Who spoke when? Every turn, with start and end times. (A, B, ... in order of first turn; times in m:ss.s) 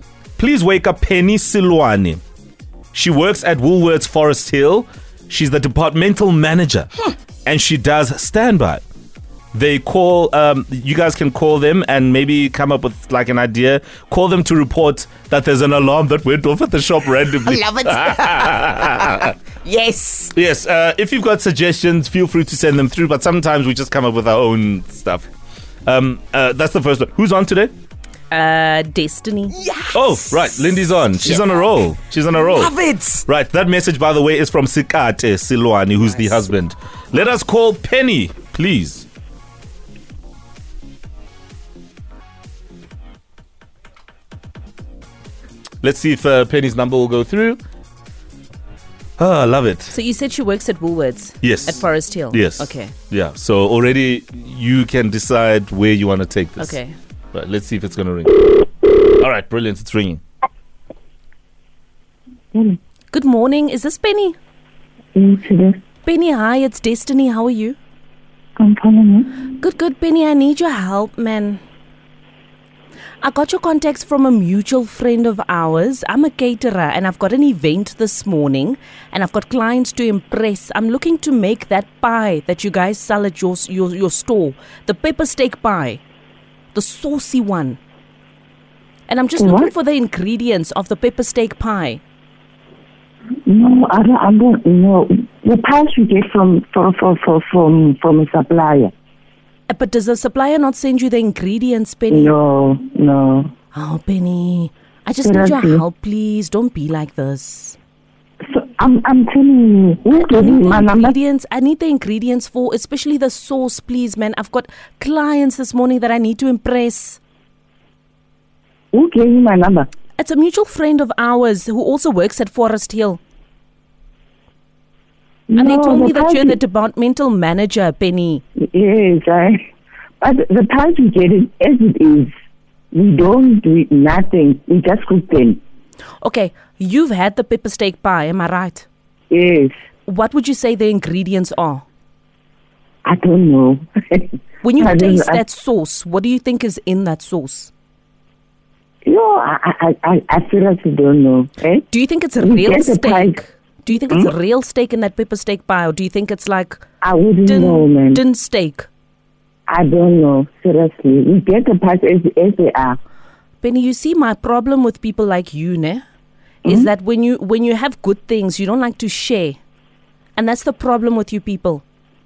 0:00.4-0:02.2 A
0:02.9-0:06.9 A
0:07.4-0:08.8 A
0:09.5-0:19.3 A
0:17.4-0:20.3 B
0:20.3-0:25.3 A
0:25.8-0:27.7 A
0:28.3-0:29.6 C
0:29.6-0:30.1 B
0:29.9-0:39.0 A
0:31.2-0:31.6 B
0:32.3-0:33.2 B
0:45.8-0:47.6 A
0:49.2-0:49.9 A
0:49.9-0:52.9 C
0:51.4-0:51.8 A
0:52.3-0:56.8 A
0:56.6-0:56.9 C
0:57.3-0:58.4 A
0:59.2-1:00.2 A
1:03.1-1:04.4 C
1:05.1-1:05.8 D
1:06.0-1:07.8 C
1:08.6-1:09.4 D
1:09.6-1:11.6 C
1:13.2-1:26.0 C
1:26.7-1:27.8 C
1:29.1-1:32.0 C
1:29.4-1:29.7 D
1:33.5-1:38.9 D
1:39.7-1:42.3 C
1:42.1-1:43.5 D
1:43.7-1:47.8 C
1:45.2-1:45.8 D
1:48.4-1:51.1 D
1:50.2-1:57.2 C
1:58.9-1:59.9 D
2:00.2-2:03.2 C
2:05.5-2:06.6 D
2:05.6-2:08.4 C
2:08.6-2:09.6 D
2:10.2-2:12.3 D
2:12.9-2:15.6 D
2:16.2-2:18.8 C
2:19.3-2:19.7 D
2:20.1-2:21.8 C
2:23.0-2:25.4 D
2:24.6-2:27.7 C
2:29.0-2:31.8 D
2:31.9-2:36.8 C
2:32.4-2:33.4 D
2:37.0-2:38.2 D
2:37.4-2:38.9 C
2:39.7-2:43.0 D
2:43.6-2:46.0 C
2:46.6-2:46.9 D
2:46.6-2:49.6 C
2:50.4-2:51.8 C